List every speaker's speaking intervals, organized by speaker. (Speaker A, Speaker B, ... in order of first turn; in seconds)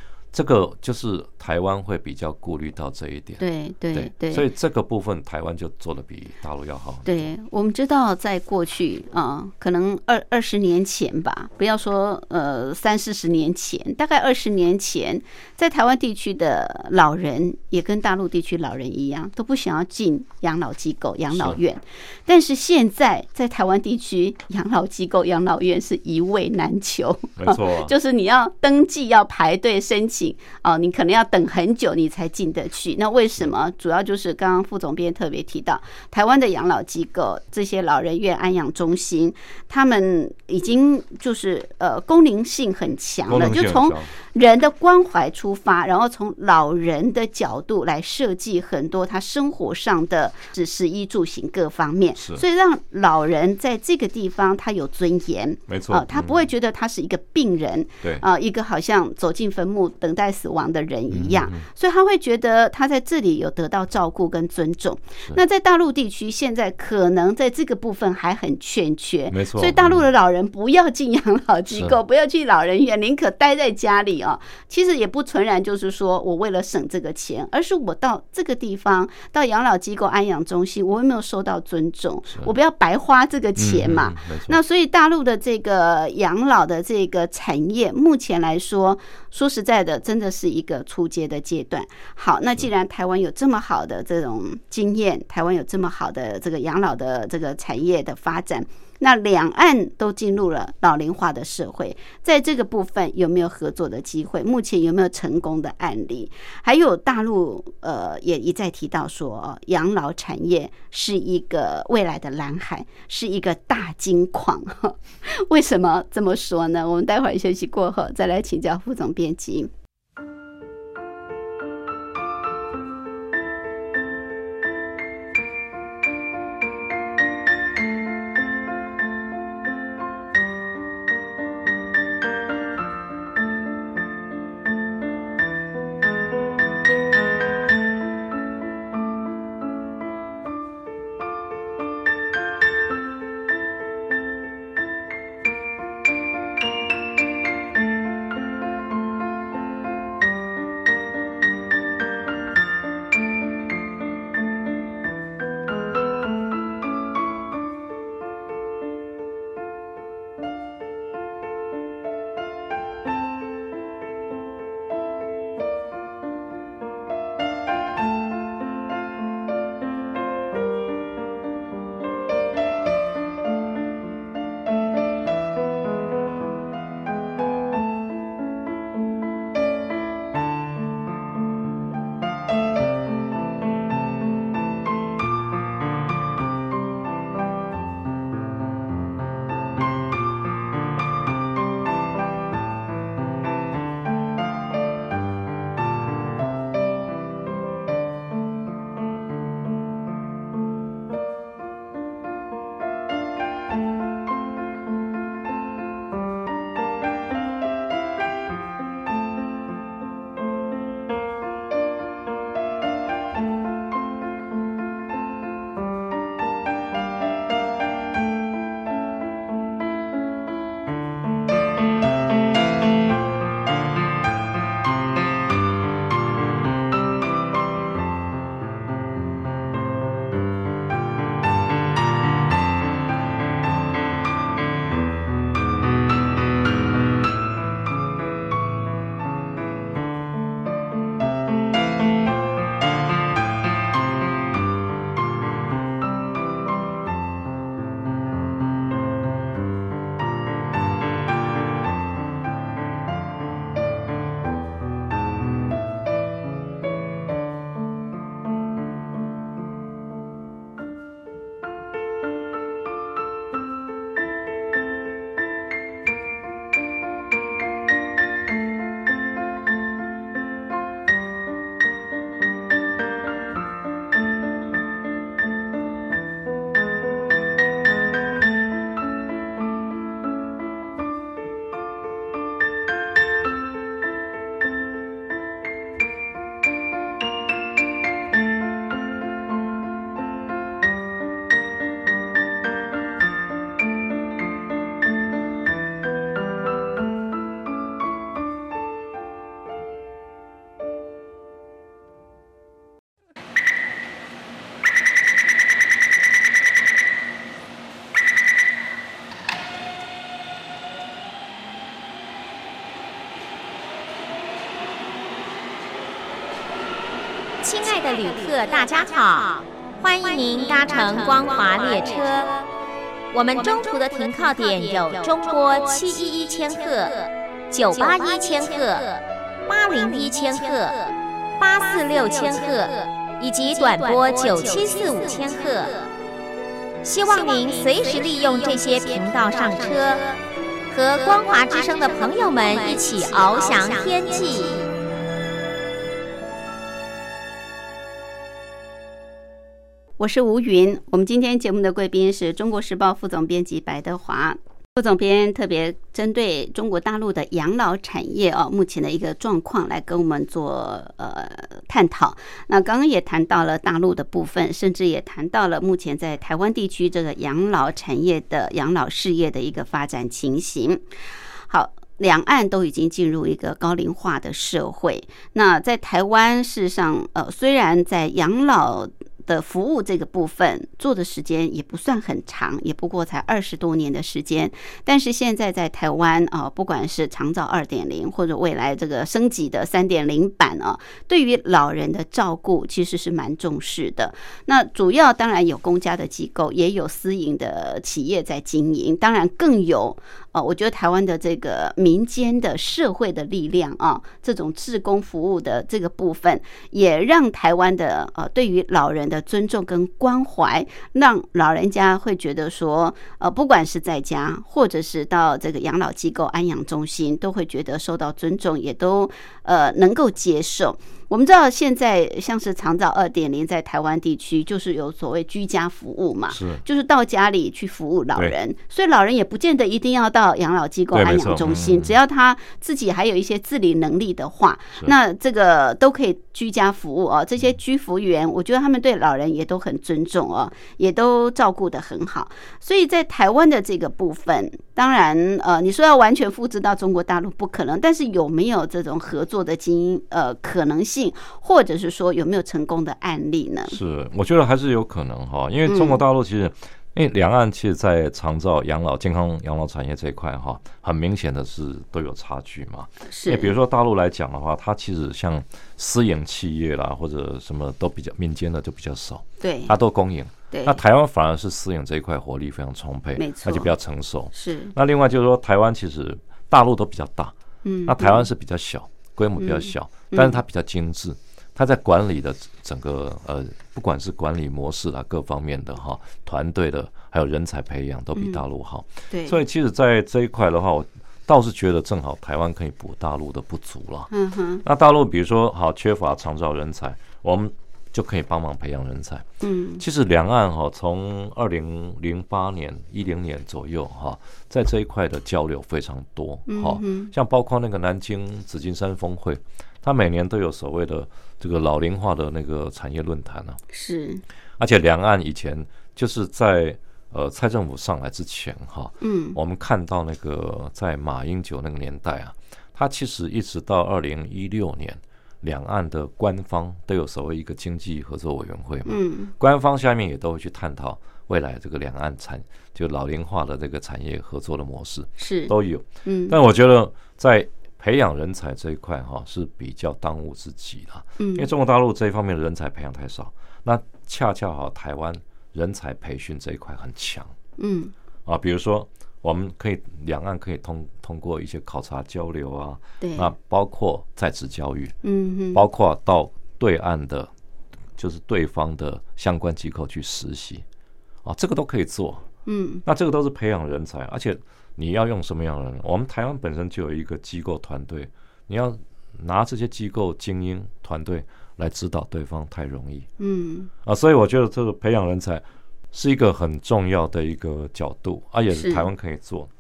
Speaker A: 0.3-7.3, 21.3-21.6, 27.4-27.9, 43.3-44.1, 52.2-52.4, 55.7-56.4, 61.1-61.7, 69.3-70.1, 71.7-72.0, 83.6-84.6, 426.5-426.8, 431.1-432.1, 453.9-477.5, 478.1-494.3, 494.8-499.5, 500.0-513.8, 514.8-547.5, 548.5-555.1, 555.7-557.5, 558.2-560.9, 561.5-562.5, 563.0-573.3, 574.0-579.7
Speaker B: 3.4-4.5, 7.1-119.7, 350.2-371.0, 371.7-454.0, 455.9-456.2, 463.3-463.7, 469.6-469.9, 470.7-471.0, 473.4-473.9, 474.5-474.9, 477.9-478.5, 479.6-480.6, 489.3-489.6, 494.3-494.8, 499.6-500.0, 506.7-507.3, 513.9-514.4, 519.2-519.6, 529.0-529.5, 535.4-536.6, 541.4-541.7, 547.8-548.1, 553.2-553.5, 555.2-555.8, 562.7-563.0, 573.4-573.9, 578.7-579.1
Speaker C: 317.6-322.5, 323.3-327.2, 327.7-329.0, 329.7-331.0, 331.6-335.9, 337.0-340.2, 340.9-344.8